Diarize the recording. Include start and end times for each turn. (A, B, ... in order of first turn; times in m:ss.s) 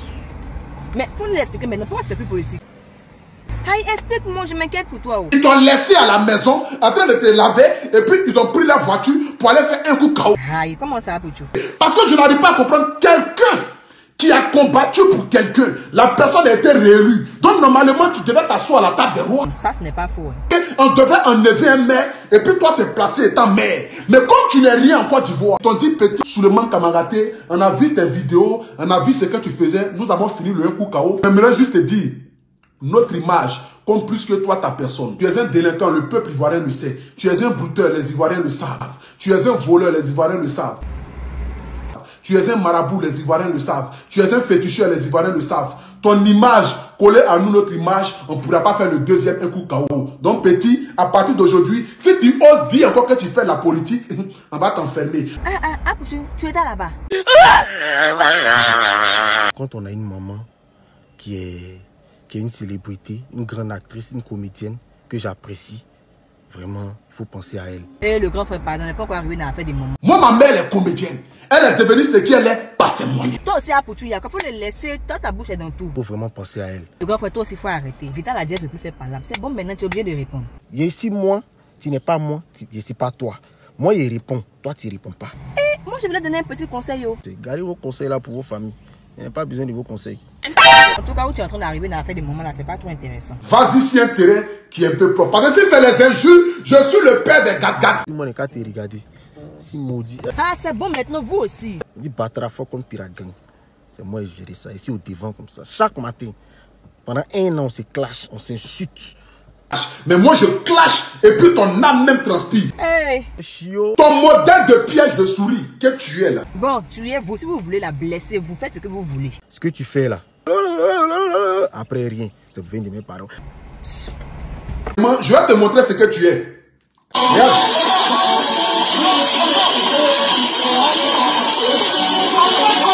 0:00.9-0:02.6 A
0:03.6-0:05.3 A
0:05.3-0:10.3 B
0:10.4-0:11.5 A
0:11.5-0:13.7 B
0:14.2-0:19.5 B
0:19.5-0:20.4 A
0:20.5-0:32.2 B
0:32.8-0:40.8 B
0:41.9-0:55.3 B
0:55.4-0:57.0 A
0:59.5-1:00.5 C
1:01.2-1:05.8 C
1:06.5-1:07.9 C
1:08.0-1:10.0 A
1:10.0-1:13.4 B
1:13.4-1:15.9 A
1:15.9-1:16.9 C
1:17.0-1:20.5 A
1:20.7-1:25.3 C
1:25.6-1:27.2 A
1:27.2-1:30.2 C
1:30.6-1:33.4 A
1:33.4-1:38.0 B
1:38.0-1:39.0 C
1:39.6-1:40.3 C
1:40.4-1:41.8 A
1:41.9-1:43.3 C
1:43.9-1:46.3 C
1:47.1-1:49.2 C
1:49.7-1:52.7 B
1:52.8-1:53.3 A
1:53.4-1:54.0 C
1:54.0-1:56.4 B
1:56.5-1:59.4 A
1:59.5-2:03.3 C
2:05.0-2:06.6 B
2:07.2-2:07.6 B